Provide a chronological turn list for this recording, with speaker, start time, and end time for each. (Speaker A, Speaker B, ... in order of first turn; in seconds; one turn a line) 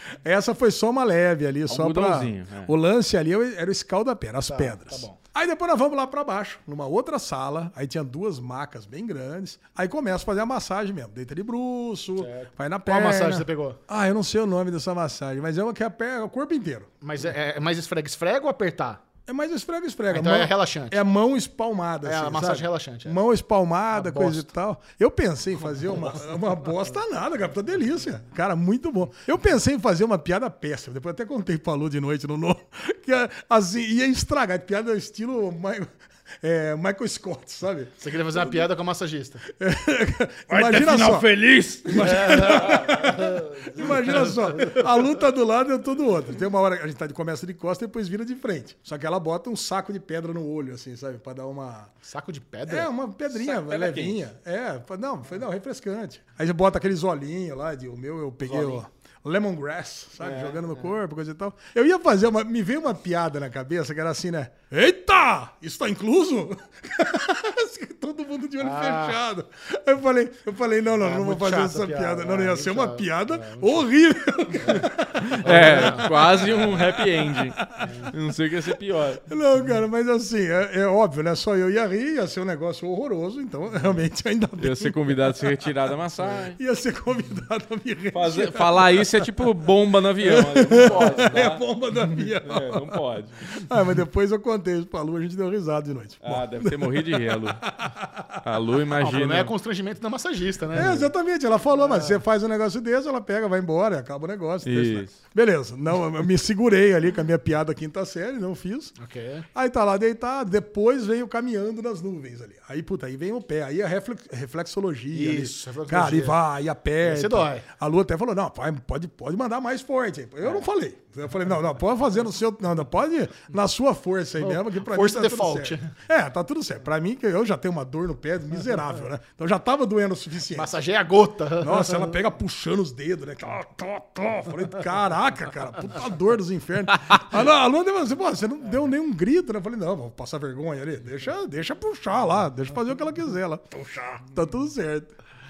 Speaker A: 0.2-16.9
Speaker B: 1.7-2.7
Speaker C: 4.5-5.2
Speaker C: 12.2-13.8
Speaker C: 17.0-19.0
Speaker A: 19.2-35.9
Speaker C: 20.1-21.0
Speaker C: 22.0-23.2
Speaker C: 23.9-24.5
Speaker A: 36.4-38.6
Speaker C: 38.0-39.4
Speaker A: 39.4-51.9
Speaker B: 40.5-42.5
Speaker C: 40.6-40.9
Speaker C: 41.9-44.9
Speaker C: 52.0-52.9
Speaker A: 52.7-77.9
Speaker B: 53.3-54.2
Speaker C: 58.4-58.8
Speaker B: 60.2-60.6
Speaker C: 68.6-69.2
Speaker C: 71.0-73.8
Speaker C: 74.6-76.1
Speaker B: 75.2-79.2
Speaker C: 77.8-78.1
Speaker A: 79.3-89.3
Speaker B: 84.6-86.6
Speaker B: 88.1-93.4
Speaker A: 90.2-98.4
Speaker C: 90.8-91.3
Speaker B: 96.2-97.7
Speaker B: 98.4-99.5
Speaker C: 99.0-101.1
Speaker A: 100.7-108.9
Speaker C: 101.8-102.2
Speaker B: 104.6-105.2
Speaker C: 109.0-109.5
Speaker A: 109.5-130.8
Speaker C: 115.1-116.4
Speaker C: 117.0-117.7
Speaker C: 124.4-125.9
Speaker C: 130.5-132.1
Speaker A: 131.6-145.1